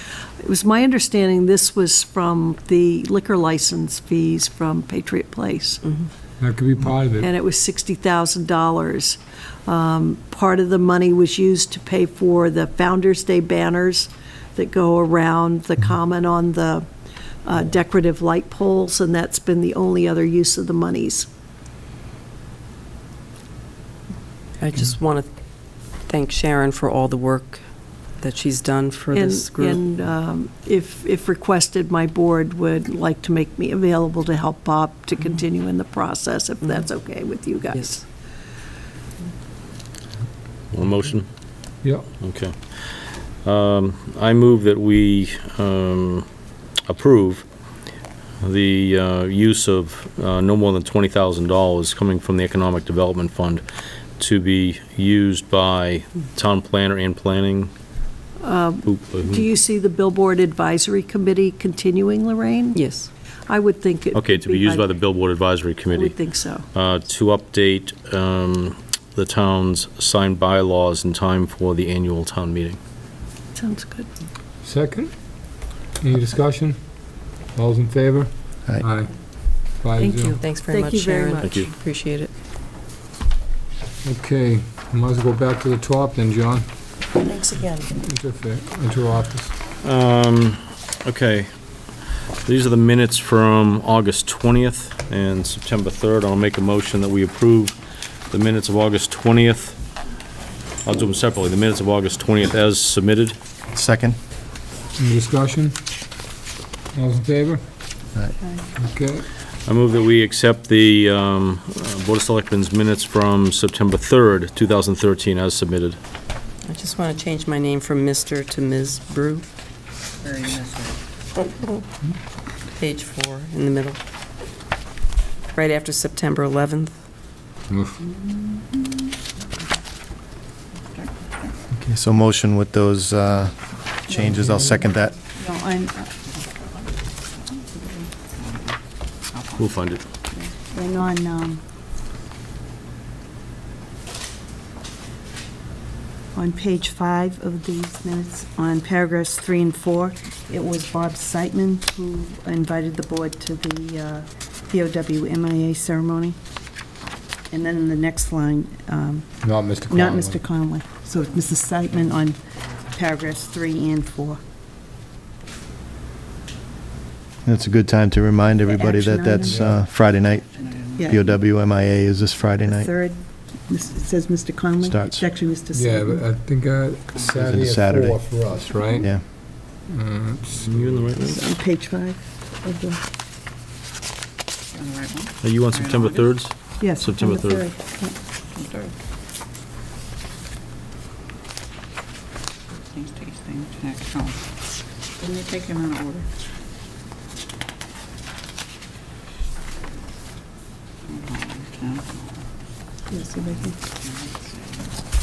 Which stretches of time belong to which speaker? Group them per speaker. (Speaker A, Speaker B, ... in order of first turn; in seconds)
Speaker A: 0.4-5.8, 7.2-16.9, 17.4-21.3, 29.1-38.0, 58.4-62.8, 63.5-64.9, 65.9-66.7, 73.5-74.1, 80.0-81.7, 87.2-87.9
Speaker B: 6.4-7.3, 41.8-42.1, 74.6-75.1, 76.0-76.9, 77.5-80.4, 84.0-86.7, 87.9-89.5, 105.0-105.8, 106.9-107.6, 108.8-109.3, 127.7-128.0, 159.4-160.4, 169.5-169.7, 175.7-179.2, 179.7-181.2
Speaker C: 24.6-25.3, 26.0-29.8, 62.7-63.1, 80.3-82.3, 116.7-119.5, 122.7-124.0, 125.5-127.0
Speaker D: 40.7-41.3, 42.2-46.2, 46.9-47.4, 48.4-53.6, 54.2-57.7, 58.8-59.5, 64.1-72.8, 81.4-81.7, 89.8-91.5, 92.5-97.8, 98.3-99.8, 100.8-103.4, 109.7-116.0, 139.6-140.1, 180.6-181.4, 185.4-187.7
Speaker E: 103.7-104.2, 131.8-135.2, 167.4-170.5, 171.1-172.9, 174.8-175.2, 177.4-178.2
Speaker F: 120.2-121.0, 128.1-128.9, 130.9-131.5, 137.4-138.8, 139.3-139.8, 170.6-171.4, 177.1-177.5, 184.7-186.3, 188.5-188.9, 192.9-194.4, 195.2-196.3, 201.1-202.4, 203.4-205.0
Speaker G: 134.1-134.8, 135.3-136.1, 140.4-141.6, 146.3-156.4, 157.5-159.3, 159.9-162.4, 162.9-164.4, 168.6-169.7, 171.0-171.3, 172.6-176.2, 181.2-183.0, 186.8-188.2, 203.1-203.8